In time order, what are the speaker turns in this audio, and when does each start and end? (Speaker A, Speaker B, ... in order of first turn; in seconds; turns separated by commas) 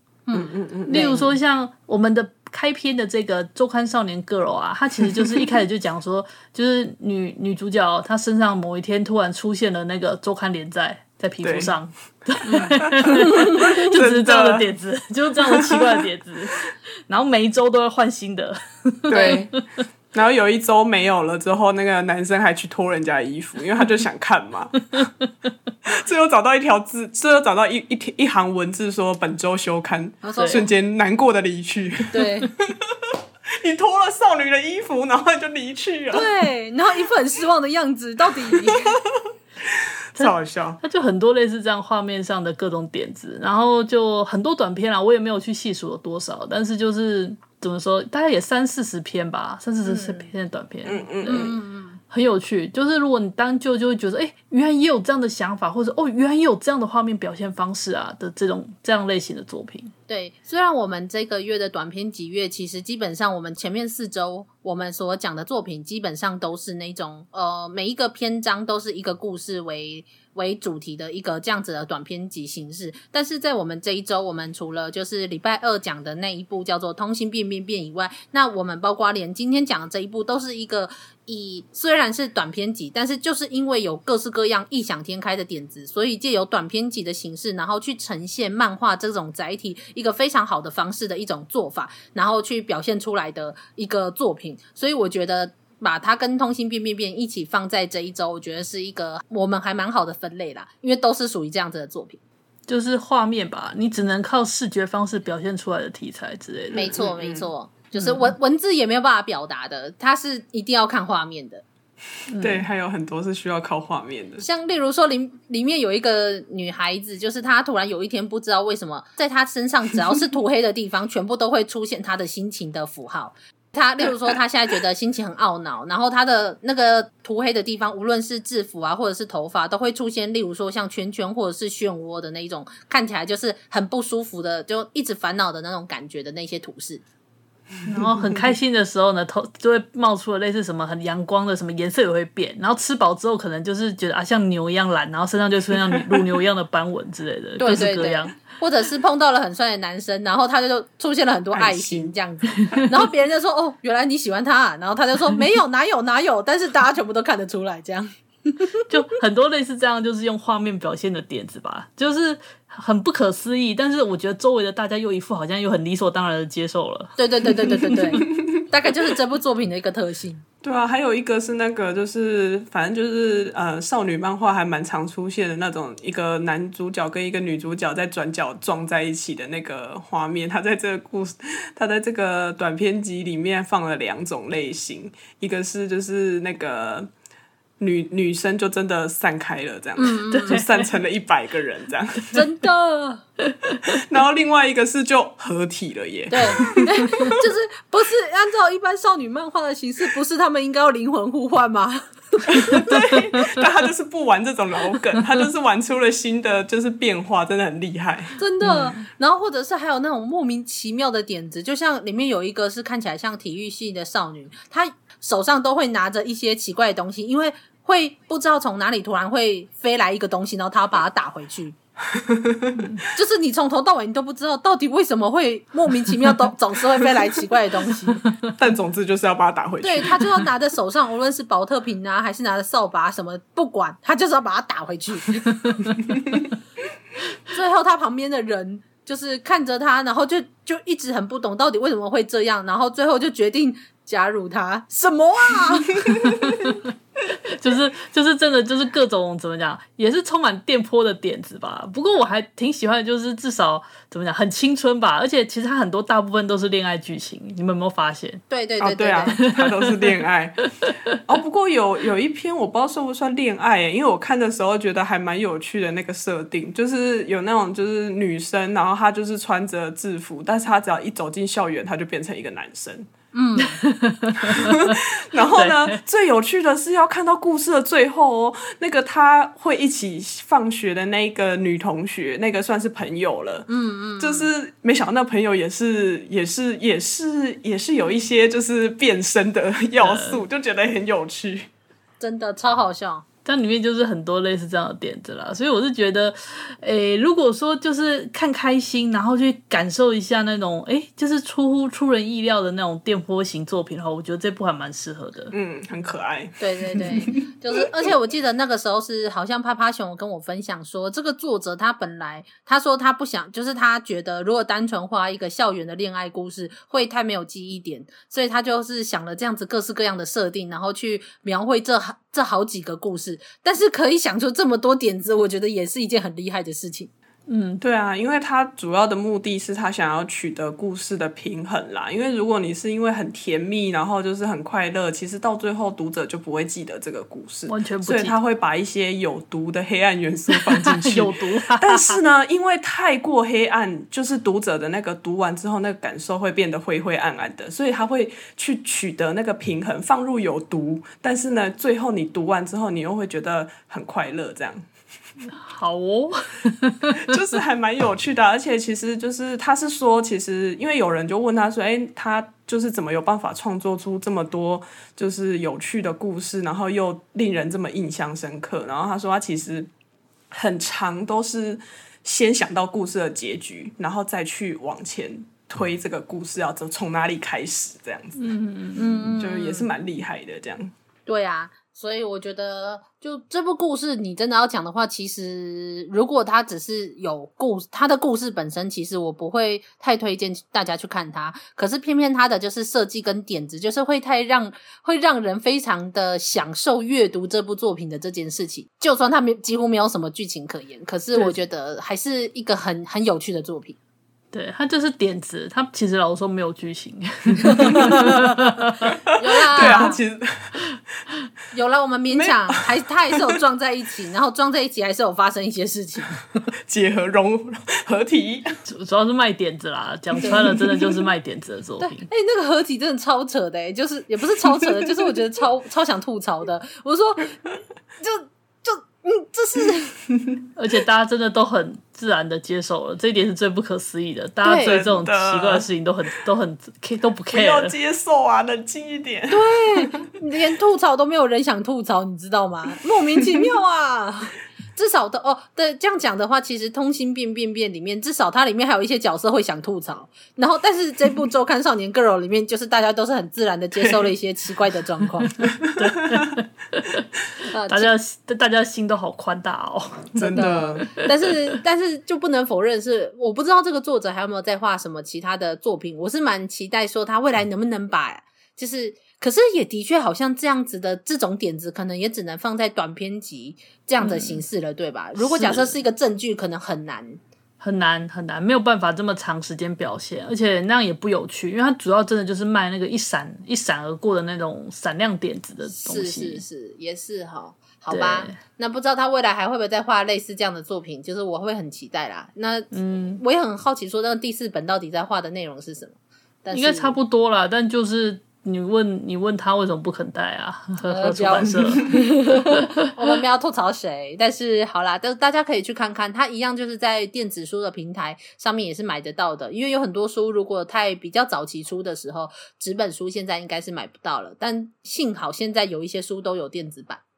Speaker A: 0.3-1.3, Speaker B: 0.3-1.2, Speaker C: 0.9-19.8, Speaker B: 5.1-5.5, Speaker B: 11.4-11.7, Speaker A: 12.5-12.8, Speaker B: 12.5-14.7, Speaker B: 15.4-16.1, Speaker B: 19.1-19.5, Speaker B: 20.1-25.1, Speaker B: 25.9-36.3, Speaker A: 30.2-30.7, Speaker C: 30.4-30.6, Speaker A: 32.1-32.5, Speaker A: 36.1-39.0, Speaker B: 38.6-38.9, Speaker B: 39.7-40.8, Speaker C: 40.2-59.9, Speaker A: 49.8-50.3, Speaker B: 50.8-51.6, Speaker A: 51.2-52.0, Speaker A: 60.1-102.2, Speaker C: 102.7-107.0, Speaker B: 106.7-107.5, Speaker A: 106.8-111.6, Speaker C: 107.9-108.3, Speaker C: 112.3-112.7, Speaker B: 112.3-114.5, Speaker A: 114.4-137.0, Speaker C: 137.8-148.4, Speaker A: 147.6-158.7, Speaker B: 151.5-152.1, Speaker C: 158.9-168.2, Speaker A: 167.2-170.4, Speaker B: 170.6-187.1, Speaker B: 187.8-192.4, Speaker A: 189.9-190.6, Speaker C: 190.3-190.7, Speaker A: 192.3-193.2, Speaker C: 193.5-193.9, Speaker B: 193.8-197.3, Speaker A: 196.3-202.8, Speaker C: 196.8-197.3, Speaker B: 202.5-208.4, Speaker A: 208.4-221.8, Speaker C: 208.6-208.9, Speaker B: 222.2-222.7, Speaker C: 222.8-223.0, Speaker A: 223.1-228.2, Speaker B: 228.6-230.4, Speaker A: 229.8-235.8, Speaker A: 237.5-246.0, Speaker C: 246.0-246.8, Speaker C: 247.6-258.4, Speaker A: 258.5-259.4, Speaker B: 258.8-260.7, Speaker C: 259.3-260.2, Speaker B: 261.2-273.1, Speaker A: 273.3-273.8, Speaker C: 273.6-275.0, Speaker B: 274.4-291.7, Speaker C: 275.5-276.0, Speaker A: 283.7-284.5, Speaker C: 290.0-290.4, Speaker A: 292.2-293.2, Speaker C: 293.4-305.5, Speaker B: 305.5-307.5, Speaker A: 306.6-327.1, Speaker C: 327.5-327.8, Speaker B: 327.8-354.8, Speaker C: 337.7-338.4, Speaker C: 340.8-342.2, Speaker C: 355.4-357.2, Speaker B: 357.2-369.9, Speaker B: 370.5-378.5, Speaker C: 378.4-379.4, Speaker A: 378.9-379.9, Speaker B: 379.4-380.9, Speaker A: 381.2-403.9, Speaker C: 404.5-409.2, Speaker B: 407.9-408.3, Speaker A: 409.4-410.2, Speaker B: 409.7-410.8, Speaker C: 409.8-410.1, Speaker A: 411.7-416.5, Speaker B: 412.3-413.6, Speaker B: 416.9-418.7, Speaker C: 418.9-422.3, Speaker B: 420.6-421.2, Speaker A: 422.0-427.6, Speaker A: 428.2-430.1, Speaker C: 430.8-437.9, Speaker A: 434.6-435.0, Speaker B: 434.8-435.9, Speaker B: 437.5-440.2, Speaker A: 439.5-455.5, Speaker B: 453.9-454.3, Speaker B: 455.4-456.1, Speaker C: 455.8-457.3, Speaker A: 457.7-458.1, Speaker C: 457.9-461.3, Speaker B: 460.3-461.1, Speaker A: 460.5-477.4, Speaker C: 474.2-474.6, Speaker C: 475.4-476.0, Speaker C: 477.8-486.6, Speaker A: 485.9-497.2, Speaker C: 488.1-488.6, Speaker C: 492.9-493.4, Speaker C: 496.7-502.1, Speaker A: 501.0-517.2